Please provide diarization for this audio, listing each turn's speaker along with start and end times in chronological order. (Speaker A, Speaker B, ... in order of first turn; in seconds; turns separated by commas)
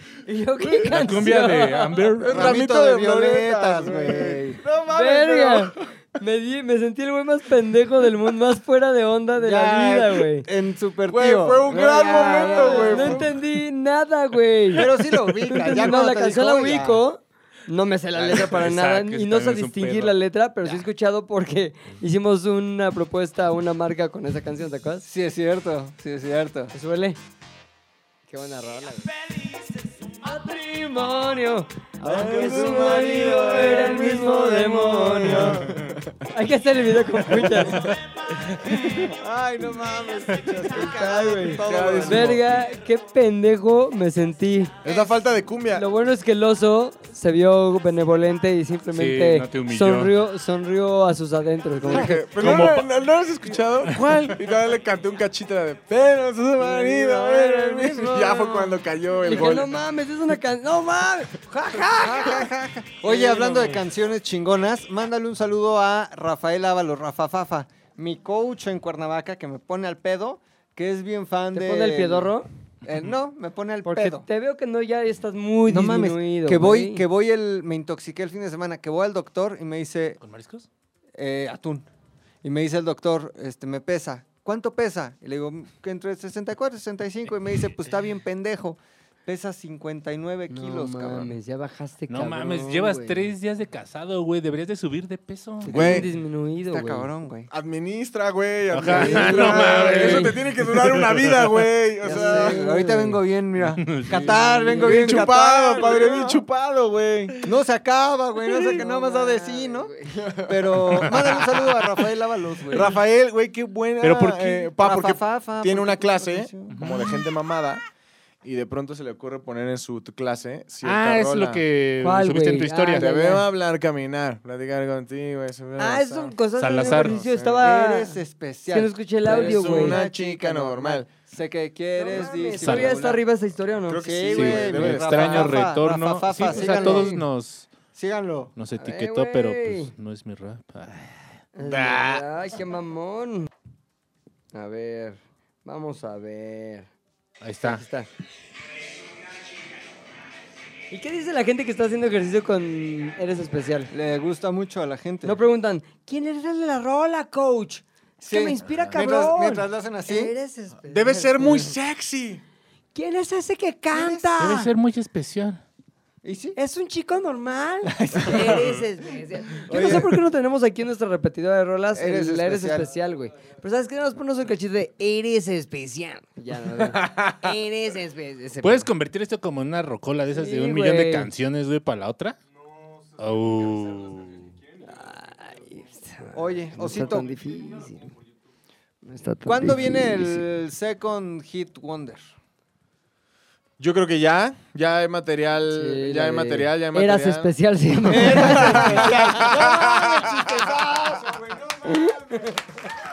Speaker A: 0.2-2.2, Speaker B: 0.8-2.6, Speaker C: 2.2-5.7, Speaker D: 2.2-4.6, Speaker A: 4.9-10.5, Speaker D: 9.3-13.3, Speaker C: 11.1-13.4, Speaker A: 11.7-25.1, Speaker D: 14.7-17.0, Speaker B: 18.3-20.1, Speaker D: 25.0-26.7, Speaker A: 26.7-27.2, Speaker A: 28.3-29.1, Speaker A: 30.1-35.7, Speaker D: 32.0-35.8, Speaker C: 32.0-34.3, Speaker C: 34.9-36.1, Speaker A: 36.3-38.0, Speaker D: 38.6-42.4, Speaker A: 40.6-44.7, Speaker C: 41.4-42.4, Speaker C: 44.8-45.9, Speaker D: 44.8-45.1, Speaker A: 45.7-52.2, Speaker B: 48.9-50.1, Speaker C: 51.8-59.7, Speaker B: 52.3-52.9, Speaker B: 53.8-54.4, Speaker A: 56.6-62.5, Speaker D: 61.9-74.3, Speaker A: 63.0-63.8, Speaker A: 71.5-72.5, Speaker A: 73.8-77.0, Speaker D: 75.7-80.2, Speaker B: 80.2-80.7, Speaker D: 81.2-81.8, Speaker D: 82.4-91.3, Speaker A: 90.5-93.3, Speaker B: 92.1-95.8, Speaker A: 95.6-97.1, Speaker C: 95.7-96.1, Speaker D: 95.8-96.0, Speaker D: 96.7-97.5, Speaker C: 97.5-102.6, Speaker B: 98.7-101.5, Speaker D: 98.9-100.2, Speaker A: 99.1-100.3, Speaker A: 102.0-103.2, Speaker D: 102.0-106.4, Speaker B: 103.7-104.5, Speaker A: 104.3-105.2, Speaker C: 104.7-107.5, Speaker D: 107.4-113.0, Speaker C: 108.5-108.8, Speaker A: 108.7-110.4, Speaker C: 110.2-111.9, Speaker C: 112.7-117.8, Speaker B: 114.0-114.6, Speaker D: 114.7-116.8, Speaker B: 116.7-117.2, Speaker C: 118.4-121.6, Speaker B: 120.8-123.1, Speaker A: 122.0-123.4, Speaker C: 123.0-127.6, Speaker A: 125.8-130.0, Speaker B: 126.6-127.2, Speaker D: 127.6-133.2, Speaker C: 129.2-131.1, Speaker A: 131.9-134.3, Speaker B: 132.6-133.1, Speaker C: 133.9-135.6, Speaker D: 133.9-137.2, Speaker B: 134.3-137.7, Speaker A: 136.4-137.2, Speaker D: 137.9-138.5, Speaker B: 138.6-141.9, Speaker A: 138.8-139.9, Speaker A: 141.5-143.5, Speaker C: 141.7-142.2, Speaker A: 144.5-146.9, Speaker B: 147.4-147.8, Speaker A: 147.6-148.1, Speaker A: 150.9-153.9, Speaker D: 153.9-155.4, Speaker A: 155.2-161.7, Speaker D: 158.2-160.3, Speaker C: 160.8-162.4, Speaker A: 162.9-164.7, Speaker D: 163.9-164.3, Speaker B: 164.4-165.6, Speaker D: 166.2-166.6, Speaker A: 166.6-178.9, Speaker D: 167.8-168.8, Speaker D: 169.6-170.2, Speaker D: 171.9-172.9, Speaker C: 176.9-177.3, Speaker B: 178.6-182.4, Speaker A: 180.3-181.3, Speaker B: 183.2-184.5, Speaker A: 184.8-188.1, Speaker D: 186.3-187.3, Speaker A: 189.0-190.4, Speaker D: 189.4-192.3, Speaker C: 193.8-197.5, Speaker A: 195.7-199.5, Speaker D: 198.1-202.6, Speaker C: 198.1-201.0, Speaker A: 201.8-202.8